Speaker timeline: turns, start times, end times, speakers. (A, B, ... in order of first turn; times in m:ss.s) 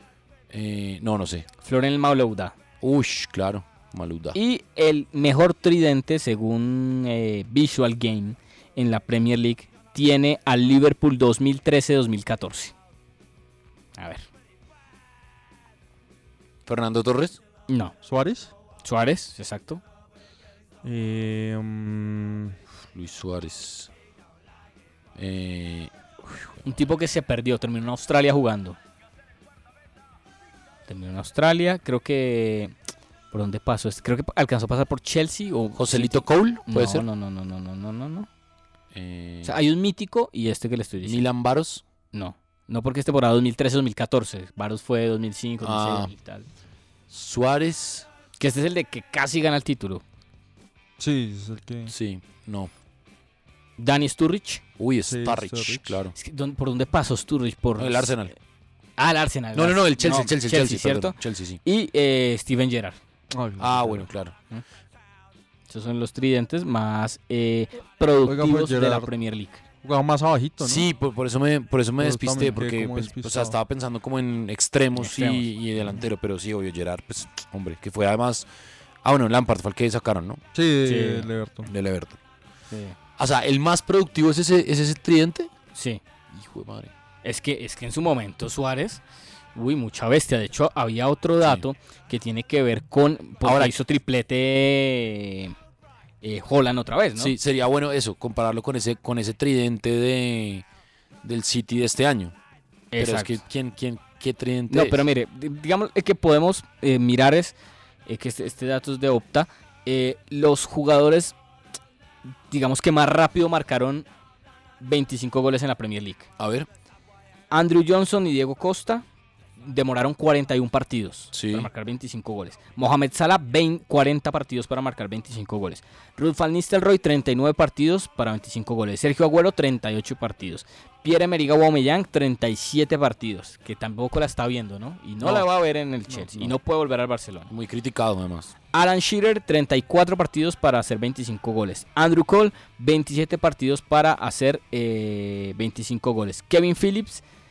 0:00.5-0:01.5 A
0:01.6-0:02.6 B
0:02.8-0:04.4 A
0:04.3-0:12.7 B
0:14.0-0:14.3 B
0:16.6-0:17.4 A
0:17.7-0:17.9 B
0:18.0-0:18.5 C
0:18.8-0:19.8 B
0:20.8-0:22.6 C
0:22.9-0:23.9 A
0:25.2-0:26.7 A
0:26.6-0:28.8 B
0:30.9-0:32.7 B
0:33.3-0:38.3 B
0:35.8-0:37.0 A
0:38.9-0:39.6 A
0:39.4-0:41.2 B
0:41.0-0:41.8 A
0:42.1-0:46.5 B
0:45.6-0:46.1 A
0:47.1-0:48.1 A
0:48.4-0:50.0 B
0:51.0-0:51.9 C
0:51.9-0:52.7 A
0:53.8-0:54.6 B
0:54.8-0:56.1 A
0:55.1-0:56.0 C
0:56.2-0:58.2 B
0:57.8-0:58.3 A
0:59.0-1:03.0 B
0:59.5-1:01.6 A
1:03.3-1:04.1 C
1:03.6-1:04.3 A
1:05.7-1:09.6 B
1:08.2-1:09.1 C
1:09.8-1:10.8 C
1:10.6-1:18.5 A
1:12.0-1:13.6 C
1:15.0-1:15.4 B
1:19.0-1:20.4 A
1:20.5-1:21.7 C
1:20.8-1:21.3 B
1:21.7-1:22.2 A
1:22.7-1:23.0 B
1:23.2-1:25.5 A
1:25.7-1:26.0 B
1:26.3-1:26.9 A
1:27.2-1:29.0 B
1:29.5-1:35.5 B
1:33.4-1:33.7 A
1:36.2-1:37.3 B
1:37.2-1:40.6 A
1:41.2-1:42.3 A
1:42.9-1:43.4 B
1:43.0-1:45.0 A
1:44.7-1:47.5 B
1:48.0-1:51.4 B
1:52.5-1:54.1 B
1:54.8-1:56.3 B
1:56.4-1:56.7 A
1:57.5-1:59.0 B
1:59.6-2:17.5 B
2:01.3-2:01.7 A
2:16.1-2:16.5 C
2:17.5-2:18.5 A
2:18.7-2:27.2 B